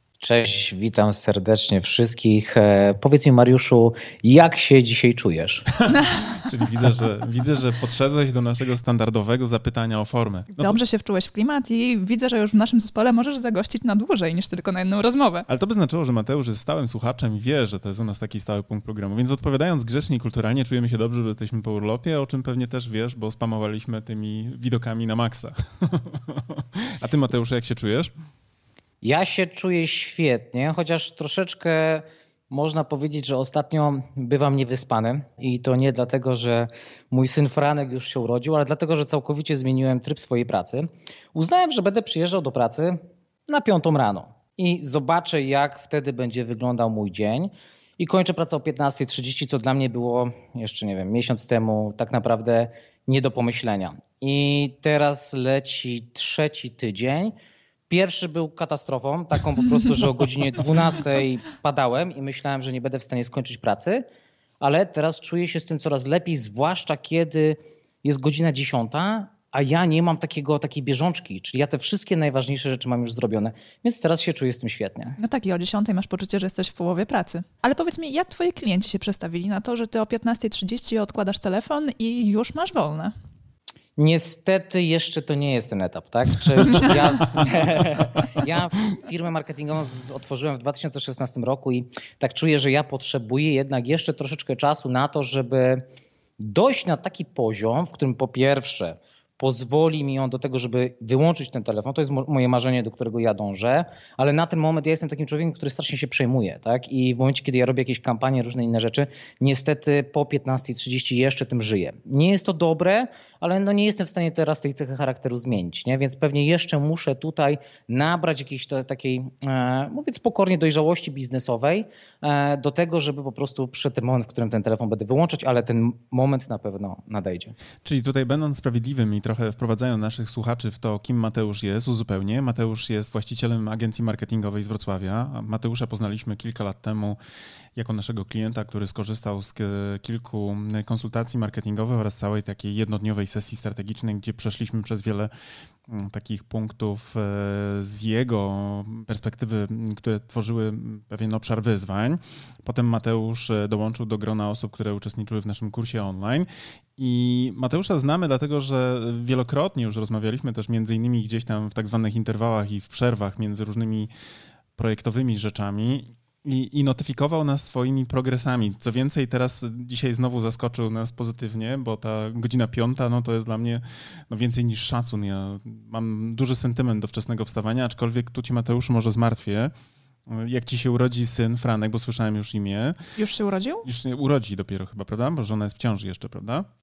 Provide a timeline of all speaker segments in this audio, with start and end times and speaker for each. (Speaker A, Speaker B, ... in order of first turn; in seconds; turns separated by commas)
Speaker A: 0.2-5.7, Speaker B: 5.8-10.8, Speaker C: 5.9-6.4, Speaker C: 10.6-15.5, Speaker B: 15.5-28.1, Speaker A: 29.0-57.3, Speaker A: 57.9-64.0, Speaker A: 64.6-75.2, Speaker C: 75.2-83.1, Speaker A: 84.0-95.9, Speaker A: 96.4-127.6, Speaker B: 127.8-137.2, Speaker B: 137.8-145.3, Speaker B: 145.9-164.1, Speaker B: 164.8-179.7, Speaker B: 180.3-183.0, Speaker C: 183.2-183.9, Speaker B: 183.8-186.7